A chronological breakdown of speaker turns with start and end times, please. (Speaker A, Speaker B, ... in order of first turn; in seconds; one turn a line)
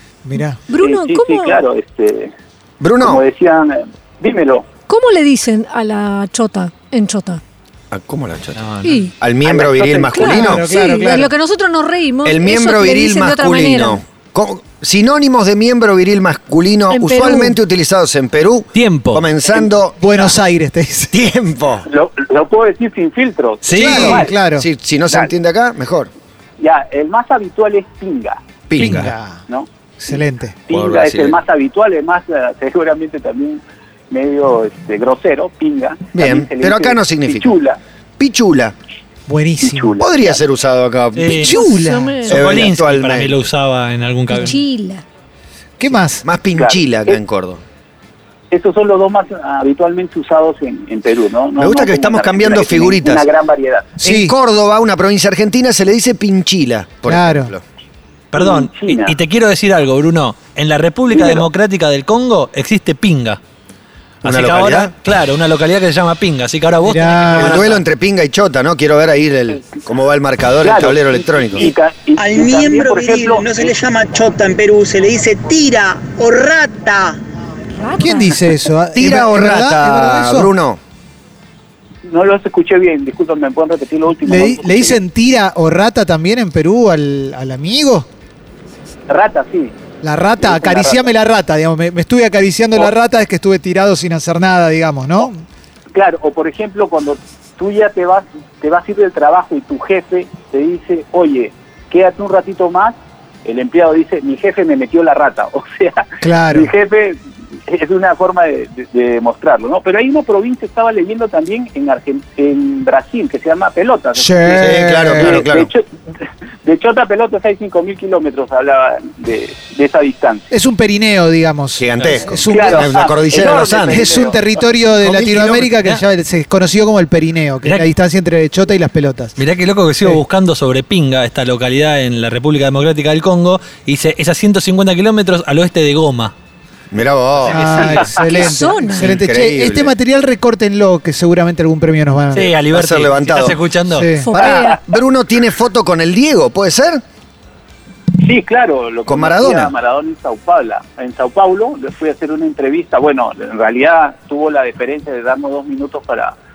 Speaker A: 0.2-0.6
Speaker B: 0.7-1.6
Speaker C: 0.8-2.3
Speaker D: 2.8-3.2
Speaker C: 3.0-4.7
Speaker B: 4.9-7.4
Speaker D: 7.9-8.7
Speaker E: 8.6-9.0
Speaker B: 8.8-9.1
Speaker D: 9.2-10.7
Speaker C: 9.5-10.0
Speaker B: 10.0-14.0
Speaker A: 10.1-11.3
Speaker D: 12.2-20.3
Speaker B: 16.9-17.6
Speaker E: 18.7-19.2
Speaker A: 20.0-21.1
Speaker D: 21.1-21.9
Speaker C: 21.9-24.3
Speaker E: 23.6-24.2
Speaker A: 23.8-24.7
Speaker D: 23.8-26.1
Speaker C: 26.6-28.4
Speaker D: 28.7-29.1
Speaker A: 28.8-29.4
Speaker C: 29.5-37.8
Speaker A: 30.0-30.6
Speaker D: 30.7-31.4
Speaker D: 36.1-37.6
Speaker D: 38.2-38.8
Speaker A: 39.3-40.0
Speaker C: 39.6-40.4
Speaker D: 40.0-41.5
Speaker E: 41.1-41.5
Speaker A: 41.4-42.3
Speaker B: 41.5-42.3
Speaker E: 42.2-44.6
Speaker D: 42.3-43.4
Speaker B: 44.3-45.0
Speaker A: 45.8-46.2
Speaker D: 46.2-47.6
Speaker C: 46.5-47.2
Speaker C: 48.5-54.0
Speaker D: 51.6-53.3
Speaker A: 54.0-54.3
Speaker D: 54.0-57.6
Speaker A: 57.1-57.5
Speaker E: 58.3-63.4
Speaker C: 58.4-59.2
Speaker C: 61.1-61.5
Speaker E: 64.2-67.8
Speaker D: 64.2-64.9
Speaker A: 66.8-67.6
Speaker D: 67.3-71.7
Speaker C: 70.6-73.8
Speaker F: 71.6-77.2
Speaker B: 77.8-78.5
Speaker A: 78.0-80.5
Speaker D: 79.0-80.8
Speaker C: 82.0-85.0
Speaker A: 84.2-88.1
Speaker C: 89.1-89.8
Speaker A: 90.0-95.4
Speaker C: 90.4-91.1
Speaker C: 95.9-115.9
Speaker A: 106.2-106.7
Speaker A: 114.2-115.4
Speaker D: 114.6-115.7
Speaker C: 116.6-120.5
Speaker A: 120.5-123.0
Speaker D: 121.8-124.1
Speaker C: 122.5-124.4
Speaker A: 123.7-129.4
Speaker D: 125.0-125.8
Speaker E: 127.6-127.9
Speaker E: 129.4-136.3
Speaker D: 136.9-138.1
Speaker A: 137.5-142.5
Speaker E: 137.5-138.1
Speaker B: 138.2-139.2
Speaker D: 139.0-139.9
Speaker E: 142.3-144.1
Speaker D: 142.7-143.6
Speaker A: 143.9-144.3
Speaker B: 144.2-144.8
Speaker D: 144.3-147.0
Speaker C: 148.2-156.4
Speaker D: 149.1-149.7